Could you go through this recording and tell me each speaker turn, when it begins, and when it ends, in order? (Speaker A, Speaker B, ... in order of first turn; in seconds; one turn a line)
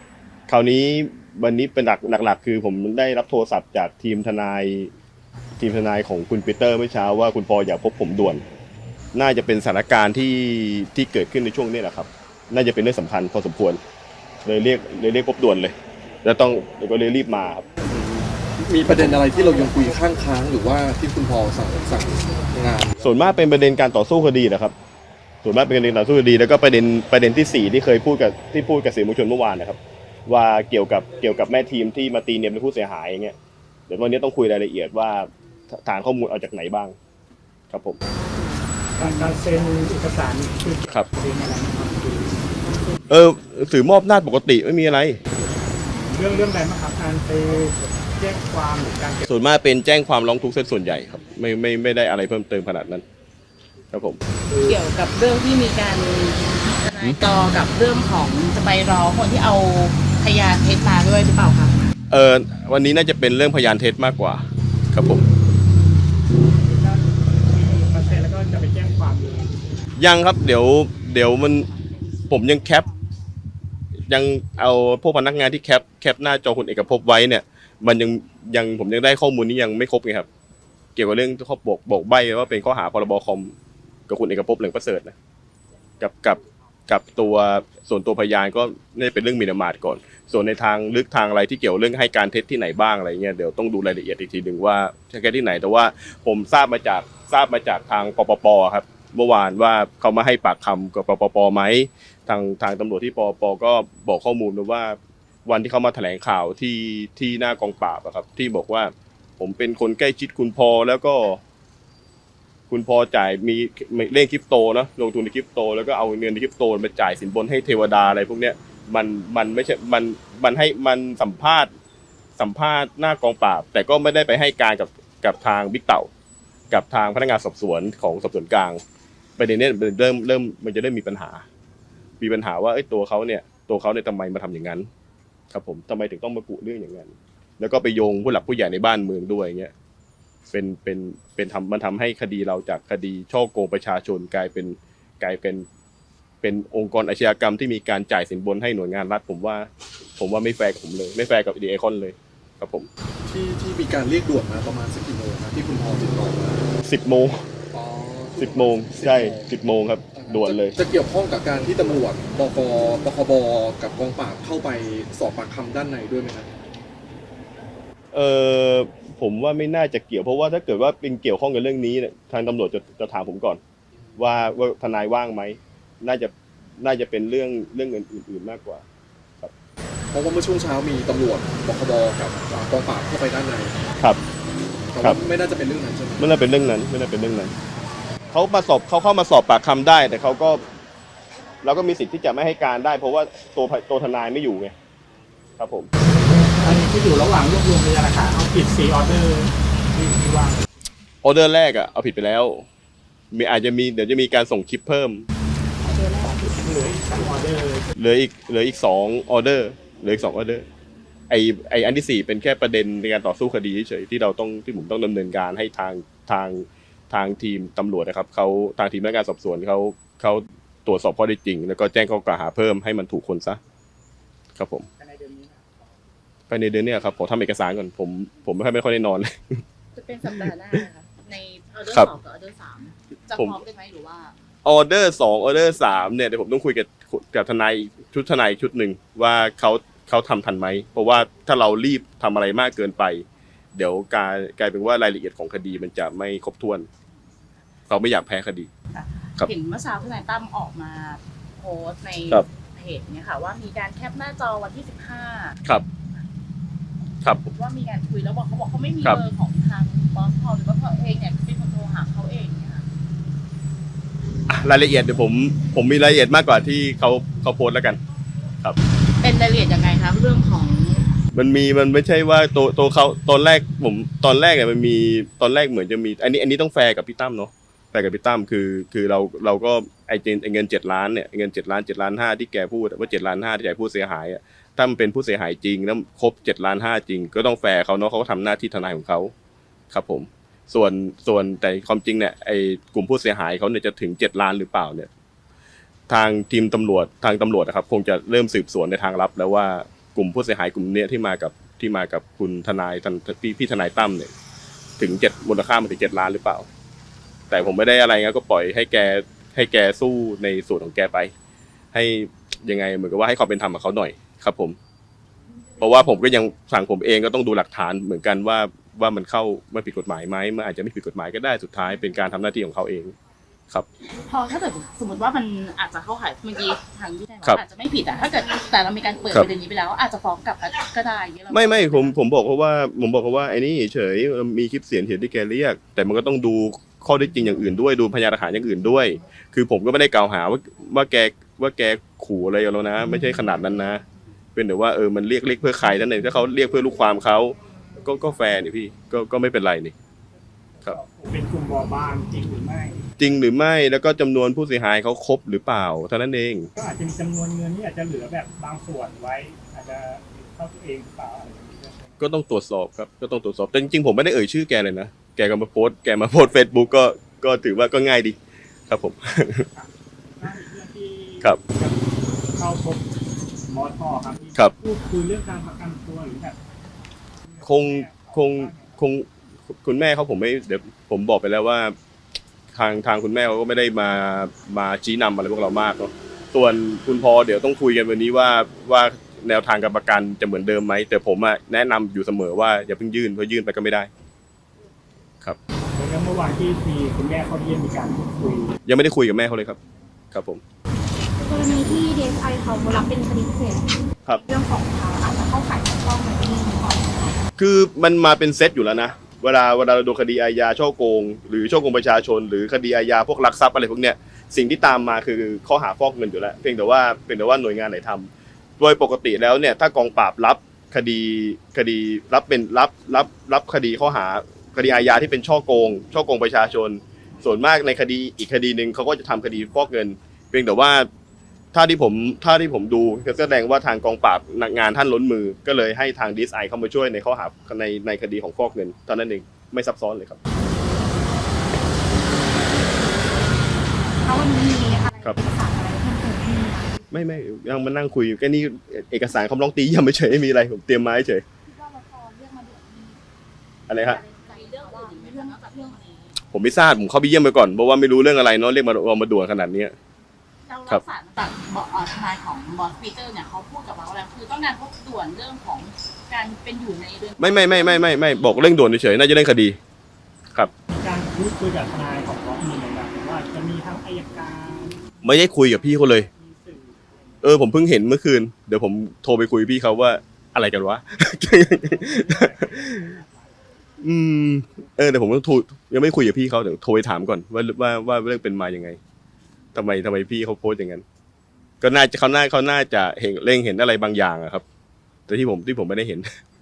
Speaker A: 0.5-4.9
Speaker A: 5.6-8.4
Speaker A: 9.1-13.8
Speaker A: 14.4-17.7
Speaker B: 17.9-23.0
Speaker C: 19.4-19.8
Speaker A: 23.0-24.7
Speaker A: 25.4-33.4
Speaker A: 33.9-37.0
Speaker A: 37.7-38.0
Speaker D: 38.9-42.4
Speaker A: 43.1-45.2
Speaker D: 45.3-49.3
Speaker A: 49.2-53.0
Speaker A: 53.9-54.2
Speaker D: 54.5-54.8
Speaker C: 54.6-61.8
Speaker A: 62.1-65.2
Speaker D: 66.7-69.6
Speaker A: 70.0-71.7
Speaker C: 71.3-73.3
Speaker A: 72.3-72.8
Speaker A: 74.1-80.3
Speaker A: 81.0-83.5
Speaker A: 84.1-85.1
Speaker A: 86.0-111.4
Speaker A: 112.7-121.7
Speaker A: 122.4-126.1
Speaker A: 126.7-128.8
Speaker A: 129.4-131.4
Speaker A: 132.2-134.9
Speaker A: 135.5-139.7
Speaker A: 140.5-145.7
Speaker A: 146.4-152.9
Speaker B: 153.2-156.7
Speaker A: 156.8-157.5
Speaker B: 157.7-159.5
Speaker A: 158.3-160.8
Speaker B: 160.2-162.0
Speaker B: 162.8-166.4
Speaker A: 168.1-173.6
Speaker A: 174.2-178.8
Speaker B: 180.1-183.8
Speaker B: 184.9-186.2
Speaker A: 186.2-187.5
Speaker A: 188.3-190.6
Speaker A: 191.6-194.7
Speaker A: 195.6-195.9
Speaker D: 196.5-200.6
Speaker A: 201.2-202.7
Speaker A: 203.3-205.2
Speaker D: 205.9-207.9
Speaker A: 208.0-210.6
Speaker A: 211.3-223.6
Speaker A: 224.6-224.8
Speaker D: 224.9-225.8
Speaker A: 226.5-229.6
Speaker C: 229.9-234.3
Speaker A: 234.6-246.9
Speaker A: 247.9-248.7
Speaker C: 248.9-256.2
Speaker C: 257.4-262.9
Speaker A: 264.5-268.0
Speaker C: 269.2-271.1
Speaker A: 271.3-289.3
Speaker A: 289.9-295.1
Speaker A: 296.1-304.3
Speaker A: 305.0-306.7
Speaker A: 307.5-311.3
Speaker A: 311.9-314.8
Speaker A: 315.8-323.1
Speaker C: 324.1-332.2
Speaker A: 331.5-344.0
Speaker A: 344.5-349.9
Speaker D: 350.8-353.1
Speaker A: 353.2-356.7
Speaker D: 356.8-362.2
Speaker A: 362.2-368.4
Speaker A: 368.9-369.6
Speaker D: 369.7-373.1
Speaker D: 373.7-376.6
Speaker D: 377.4-379.0
Speaker A: 377.6-381.9
Speaker A: 382.7-394.1
Speaker D: 395.9-398.7
Speaker A: 398.9-399.8
Speaker A: 400.3-400.6
Speaker E: 401.4-407.4
Speaker A: 407.6-431.1
Speaker A: 431.7-440.4
Speaker E: 442.9-443.4
Speaker E: 444.2-447.1
Speaker A: 447.1-451.4
Speaker E: 451.7-453.2
Speaker A: 453.9-454.2
Speaker E: 453.9-456.0
Speaker C: 454.2-456.4
Speaker A: 456.5-459.9
Speaker C: 460.6-468.2
Speaker A: 467.4-469.8
Speaker D: 470.9-477.4
Speaker A: 475.2-476.3
Speaker A: 477.4-482.9
Speaker D: 481.5-483.7
Speaker A: 484.0-489.0
Speaker A: 489.7-491.0
Speaker A: 491.8-494.6
Speaker A: 495.3-496.3